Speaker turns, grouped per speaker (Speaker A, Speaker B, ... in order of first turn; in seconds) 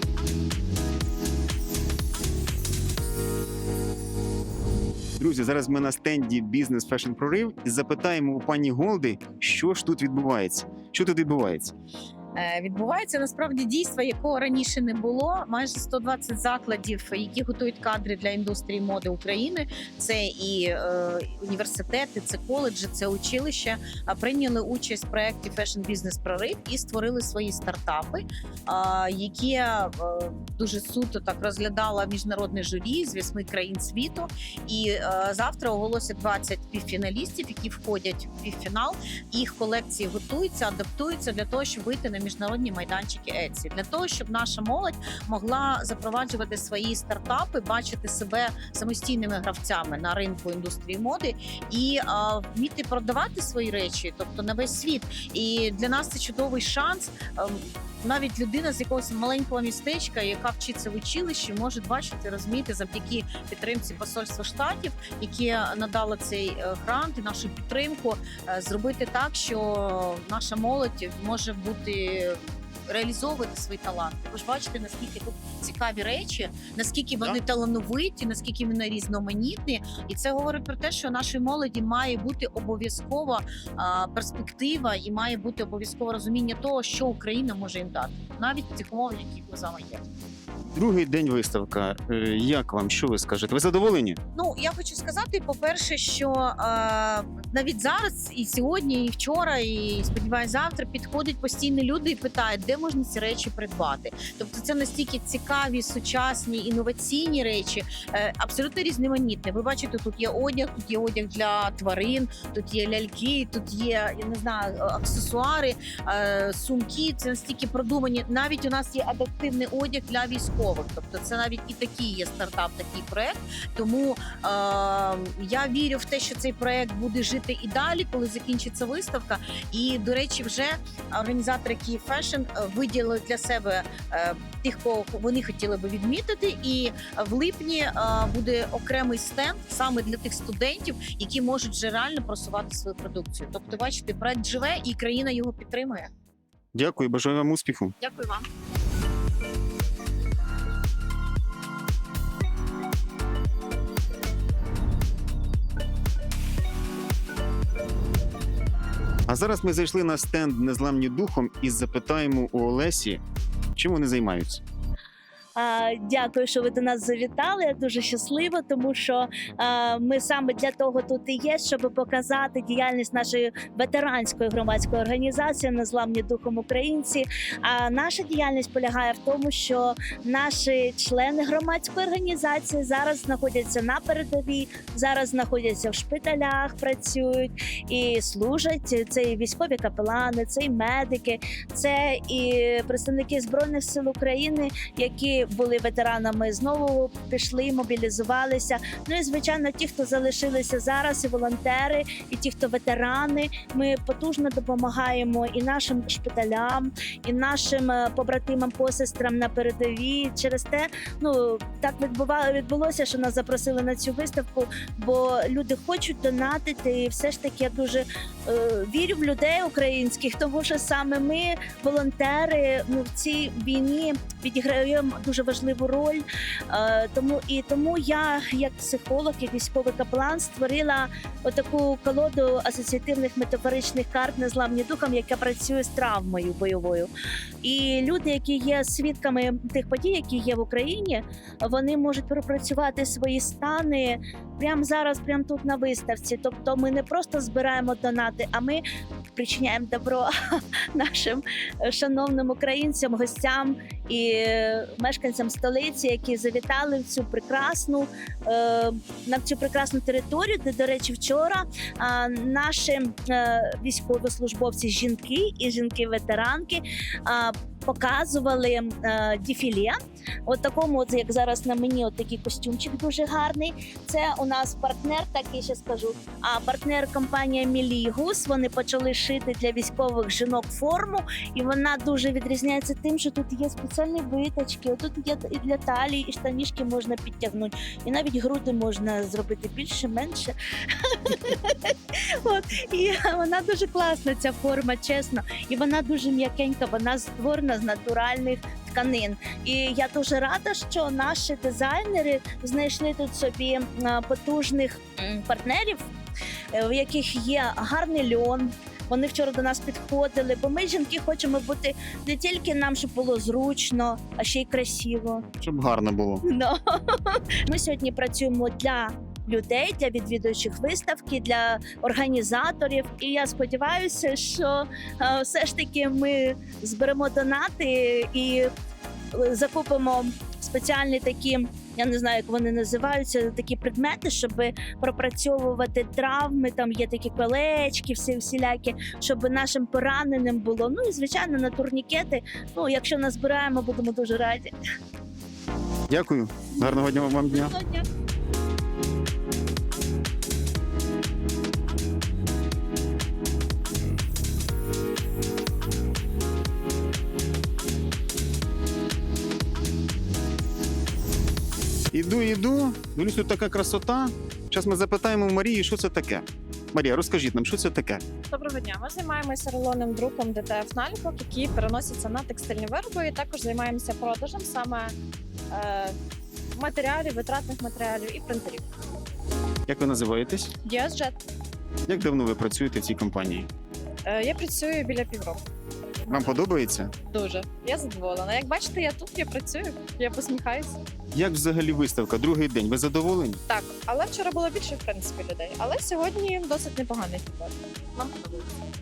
Speaker A: 5.2-11.7, 90.7-94.2, 146.7-147.9, 159.3-163.2, 163.8-164.6, 315.6-316.4, 346.1-347.7, 362.1-368.2, 379.9-380.7, 382.1-383.7, 386.3-387.1, 391.3-393.6
Speaker B: 12.3-90.0, 94.3-146.1, 148.0-148.4
Speaker C: 165.6-237.1, 237.6-248.8, 249.3-250.3, 250.9-290.5, 291.1-306.1, 306.7-315.4, 316.5-328.7, 329.3-344.7, 347.5-348.0
Speaker D: 368.5-375.1, 375.7-376.2, 376.7-378.9, 380.8-381.4, 384.2-385.6, 387.3-391.0, 393.7-398.6